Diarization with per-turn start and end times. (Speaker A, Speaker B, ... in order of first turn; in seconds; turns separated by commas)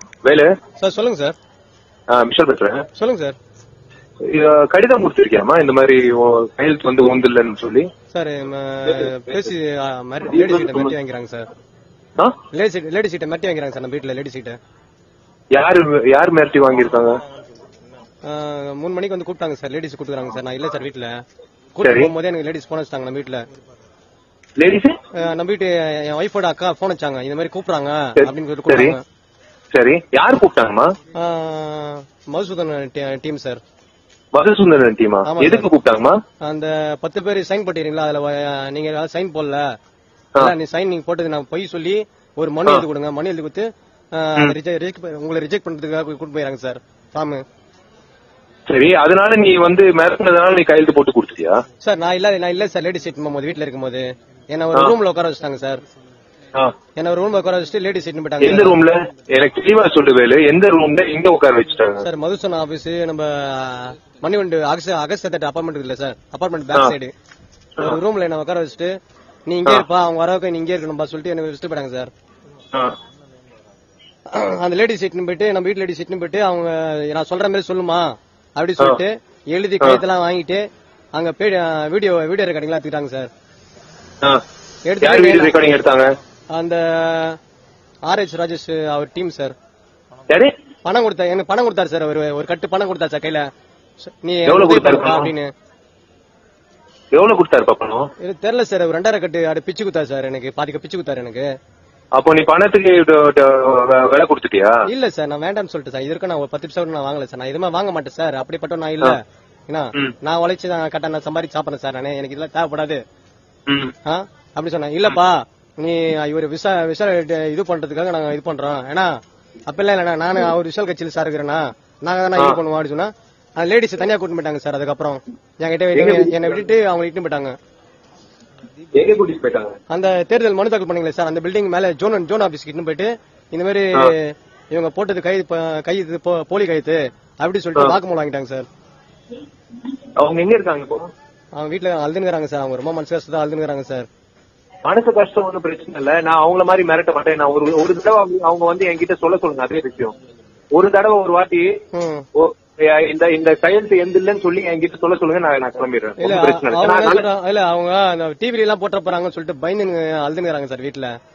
Speaker A: 0.2-0.5, Speaker B: 0.8-1.4, Speaker A: 2.1-2.9, Speaker B: 3.0-3.4, Speaker A: 4.2-7.9, Speaker B: 8.1-11.5, Speaker A: 8.9-9.2, Speaker A: 10.3-10.9, Speaker B: 12.5-14.6, Speaker A: 15.5-17.2, Speaker B: 18.2-21.1, Speaker B: 21.8-23.4, Speaker A: 21.8-22.1, Speaker A: 24.6-25.0, Speaker B: 25.1-29.0, Speaker A: 28.2-29.0, Speaker A: 29.7-30.9, Speaker B: 31.2-33.6, Speaker A: 34.3-36.2, Speaker B: 35.3-35.7, Speaker B: 36.4-39.6, Speaker B: 40.4-47.4, Speaker A: 48.7-51.6, Speaker B: 51.8-55.8, Speaker B: 57.0-58.8, Speaker A: 58.4-62.0, Speaker B: 62.0-67.1, Speaker B: 67.8-68.9, Speaker B: 69.5-72.1, Speaker B: 74.3-83.3, Speaker B: 84.9-85.7, Speaker A: 85.0-86.1, Speaker B: 86.5-87.4, Speaker B: 88.1-89.5, Speaker B: 90.8-93.5, Speaker B: 94.2-95.5, Speaker A: 94.5-95.3, Speaker A: 97.1-98.1, Speaker B: 98.2-101.5, Speaker A: 102.2-104.8, Speaker B: 104.9-113.0, Speaker A: 113.7-113.9, Speaker B: 114.1-119.1, Speaker B: 119.7-127.6, Speaker A: 125.9-126.5, Speaker A: 129.0-129.8, Speaker B: 129.9-138.7, Speaker A: 140.2-141.1, Speaker B: 141.6-144.1, Speaker A: 144.8-150.2, Speaker A: 150.7-151.8, Speaker B: 151.9-152.3, Speaker A: 152.4-157.2, Speaker B: 156.2-161.1